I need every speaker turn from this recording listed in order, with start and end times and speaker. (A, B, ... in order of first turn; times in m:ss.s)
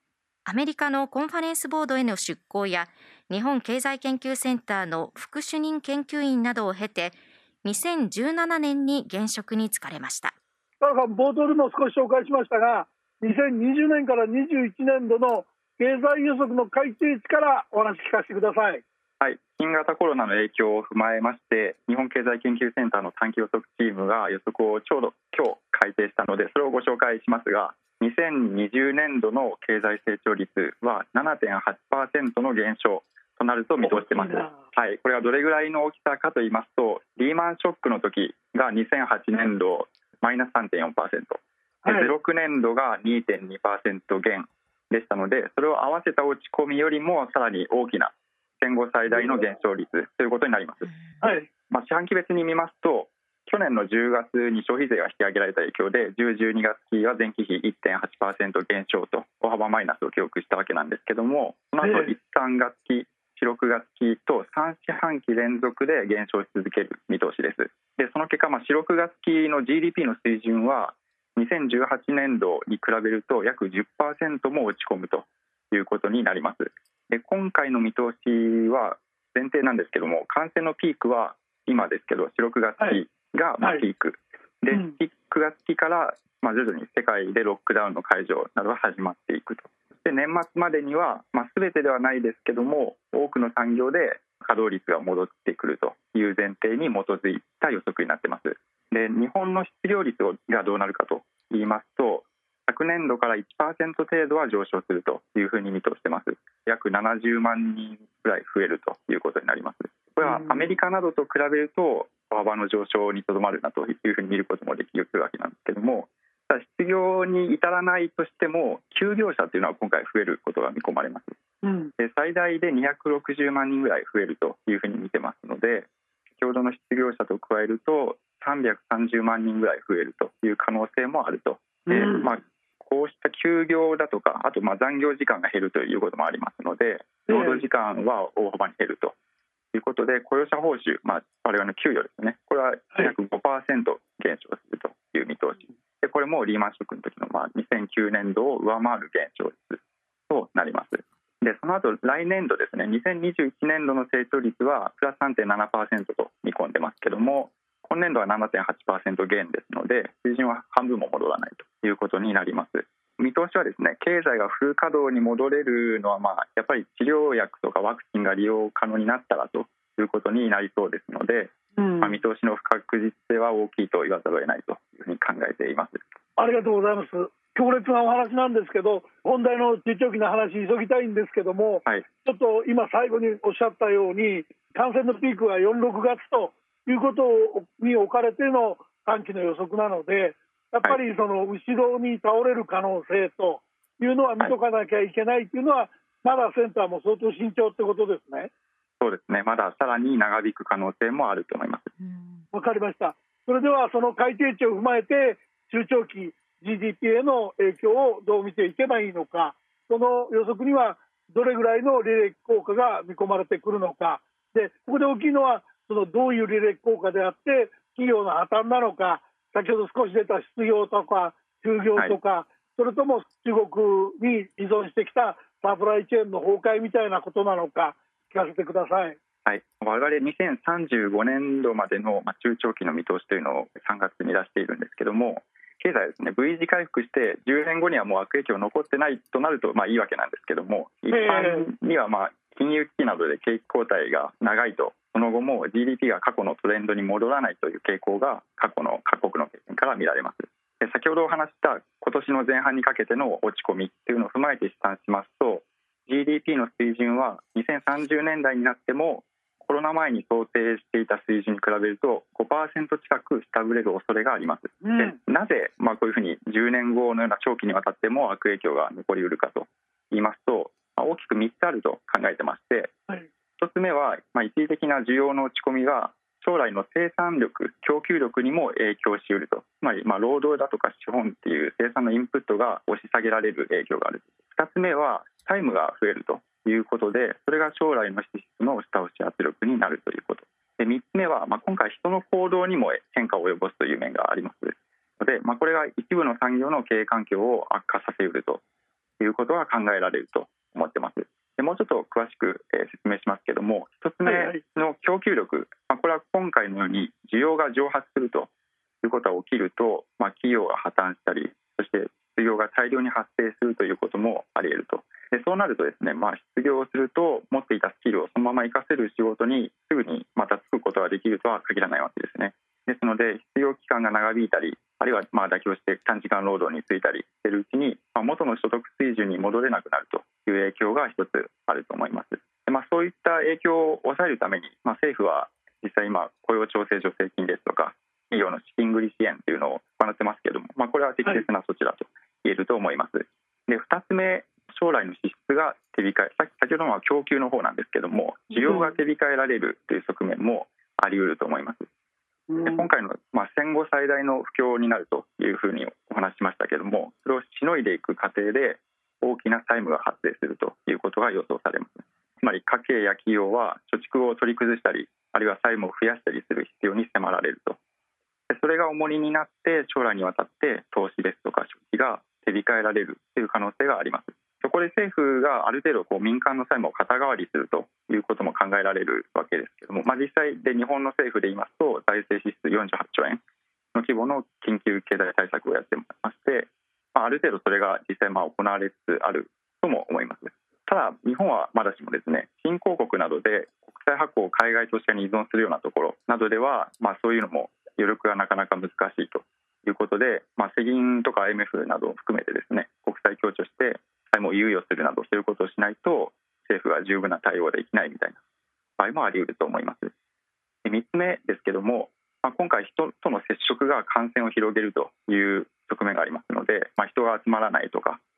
0:00.5-0:10.4 A
0:10.8-0:18.8 B
0:19.2-0:50.9 C
0:33.8-0:34.6 B
0:41.8-0:42.2 B
0:49.1-0:49.4 B
0:51.2-0:51.5 B
0:51.7-2:01.4 C
1:01.8-1:02.1 B
1:50.2-1:50.7 B
2:01.6-2:01.9 B
2:02.0-2:19.1 C
2:11.9-2:12.3 B
2:17.3-2:17.6 B
2:19.7-2:56.2 C
2:51.8-2:52.2 B
2:56.4-3:18.5 B
3:19.0-3:21.9 C
3:22.5-3:49.2 B
3:49.5-4:32.9 C
4:01.1-4:01.7 B
4:24.8-4:25.2 B
4:33.6-4:58.6 C
4:59.2-5:08.5 C
5:04.2-5:04.6 B
5:09.0-5:51.9 C
5:48.5-5:48.9 B
5:52.5-5:52.9 B
5:52.6-6:07.8 C
6:08.5-6:23.4 C
6:24.0-6:48.4 C
6:49.0-6:50.1 C
6:50.8-6:58.2 C